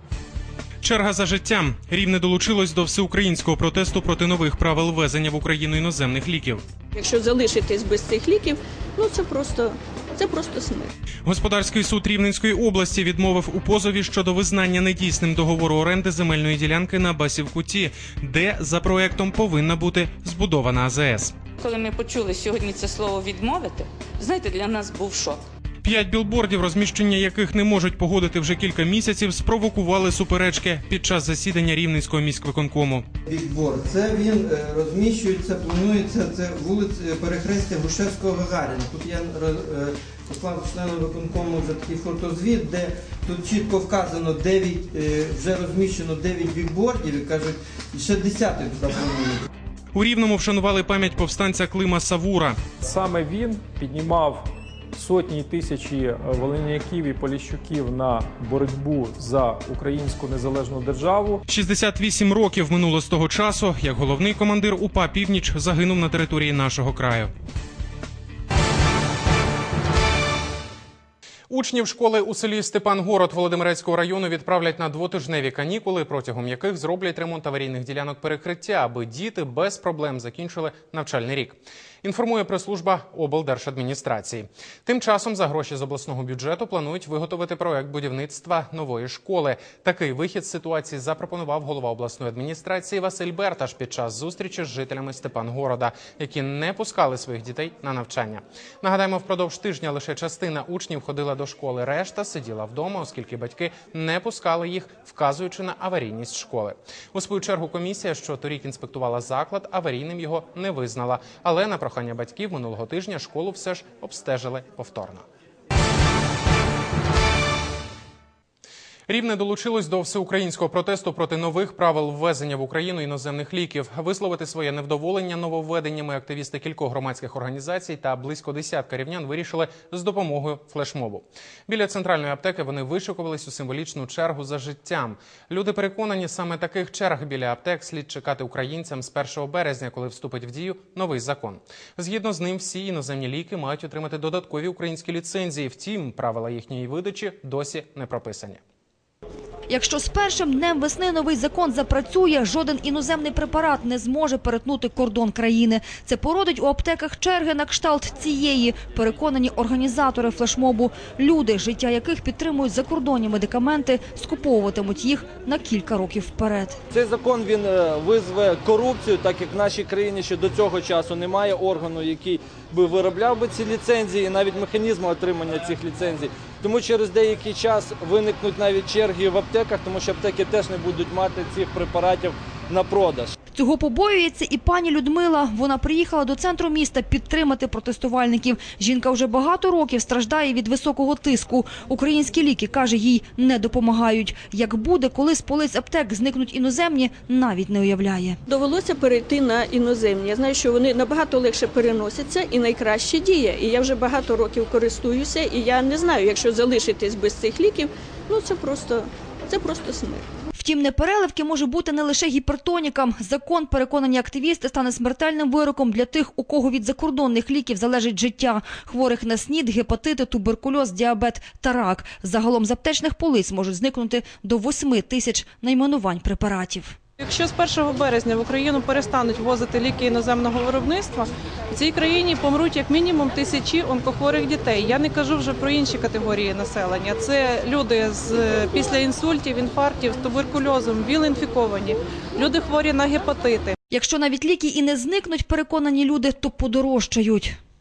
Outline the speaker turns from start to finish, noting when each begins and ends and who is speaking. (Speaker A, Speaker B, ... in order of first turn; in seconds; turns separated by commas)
Speaker A: 0.8-6.6, Speaker B: 7.0-10.9, Speaker A: 11.2-21.4, Speaker C: 21.6-25.4, Speaker A: 25.8-33.0, Speaker D: 33.3-49.5, Speaker A: 49.9-52.6, Speaker E: 52.8-61.4, Speaker A: 61.5-67.3, Speaker A: 71.5-115.3, Speaker A: 119.1-148.6, Speaker F: 149.7-166.8, Speaker G: 166.9-183.3, Speaker F: 183.6-198.4, Speaker B: 198.5-209.0, Speaker B: 209.5-210.2, Speaker F: 210.6-227.0, Speaker H: 227.2-243.8, Speaker F: 243.9-247.6